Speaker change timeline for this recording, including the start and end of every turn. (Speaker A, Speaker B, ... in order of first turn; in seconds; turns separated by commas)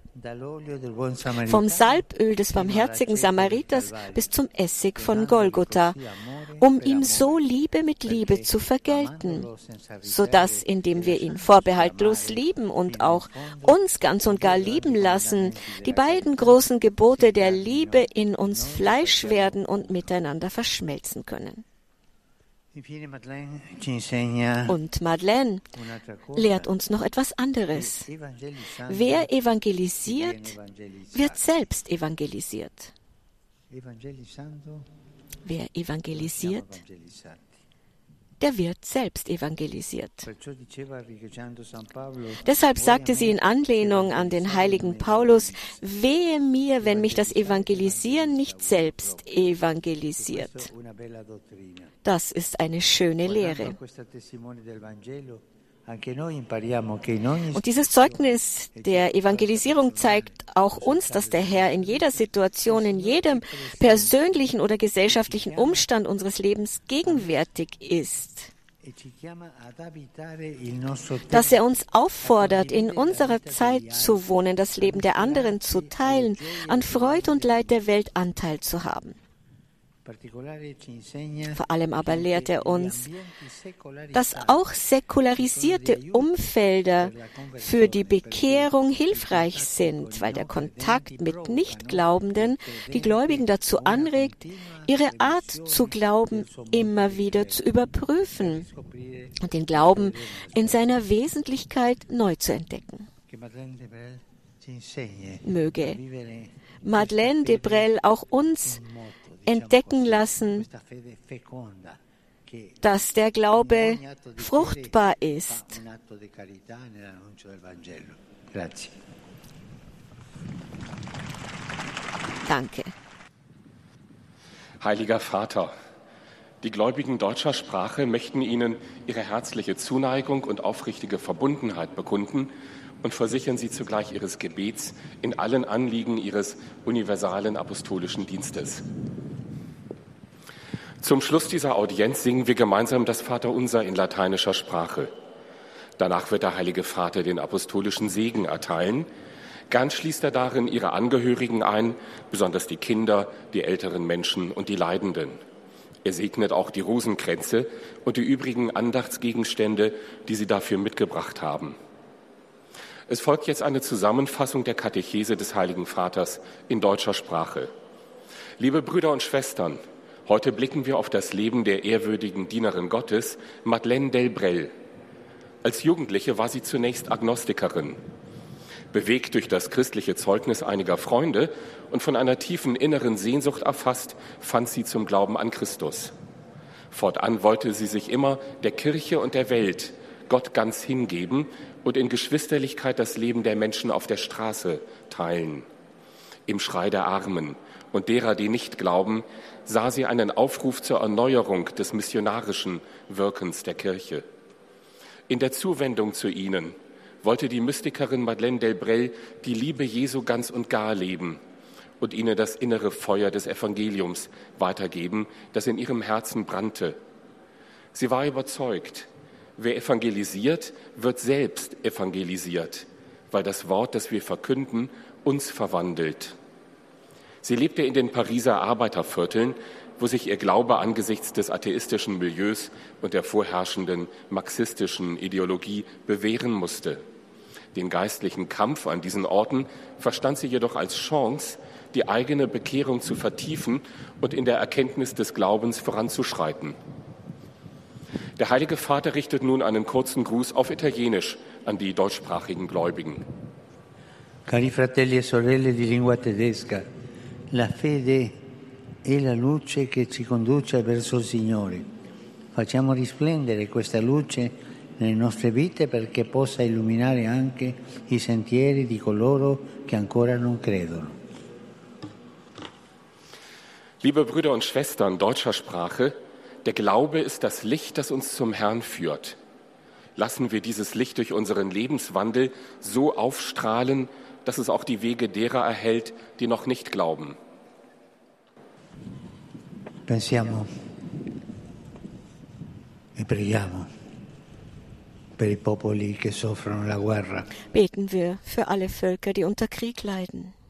Speaker A: 0.1-4.4, Speaker B: 1.4-6.0, Speaker A: 5.0-7.5, Speaker B: 6.6-9.5, Speaker A: 8.1-20.1, Speaker B: 10.0-21.6, Speaker A: 22.7-24.8, Speaker B: 24.7-25.6, Speaker A: 25.8-26.8, Speaker B: 26.4-28.1, Speaker A: 27.7-29.4, Speaker B: 28.9-30.6, Speaker A: 30.0-31.7, Speaker B: 31.1-32.9, Speaker A: 33.7-34.9, Speaker B: 35.5-36.8, Speaker A: 36.1-37.5, Speaker B: 38.4-40.3, Speaker A: 40.2-45.8, Speaker B: 42.4-50.7, Speaker A: 46.8-49.4, Speaker A: 50.2-52.0, Speaker B: 52.0-53.8, Speaker A: 53.2-64.3, Speaker B: 57.5-68.5, Speaker A: 65.1-65.9, Speaker A: 67.0-67.4, Speaker A: 68.8-71.6, Speaker B: 71.3-79.2, Speaker A: 72.2-74.3, Speaker A: 74.8-77.7, Speaker A: 80.0-84.7, Speaker B: 81.5-83.1, Speaker B: 84.1-98.7, Speaker A: 85.4-97.7, Speaker A: 98.3-100.9, Speaker B: 99.4-103.1, Speaker A: 103.3-107.9, Speaker B: 105.5-106.0, Speaker B: 106.8-108.8, Speaker A: 108.6-112.9, Speaker B: 109.5-110.7, Speaker B: 112.8-115.8, Speaker A: 113.5-119.0, Speaker B: 122.5-122.9, Speaker C: 124.8-125.7, Speaker C: 126.6-138.8, Speaker C: 141.0-145.1, Speaker C: 146.0-149.1, Speaker C: 149.7-155.4, Speaker C: 156.1-161.8, Speaker C: 163.1-167.7, Speaker C: 168.6-174.7, Speaker C: 175.6-178.0, Speaker C: 178.9-186.1, Speaker C: 186.9-195.7, Speaker C: 196.5-204.2, Speaker C: 205.3-211.4, Speaker C: 212.0-217.0, Speaker C: 217.9-226.3, Speaker C: 227.4-237.0, Speaker C: 237.8-246.8, Speaker C: 248.4-253.2, Speaker A: 254.5-256.9, Speaker A: 257.5-258.4, Speaker A: 259.1-261.9, Speaker A: 262.5-271.2, Speaker C: 274.0-279.4, Speaker C: 280.2-287.4, Speaker A: 290.1-290.7, Speaker A: 293.2-293.9, Speaker A: 295.4-297.6, Speaker B: 297.7-300.5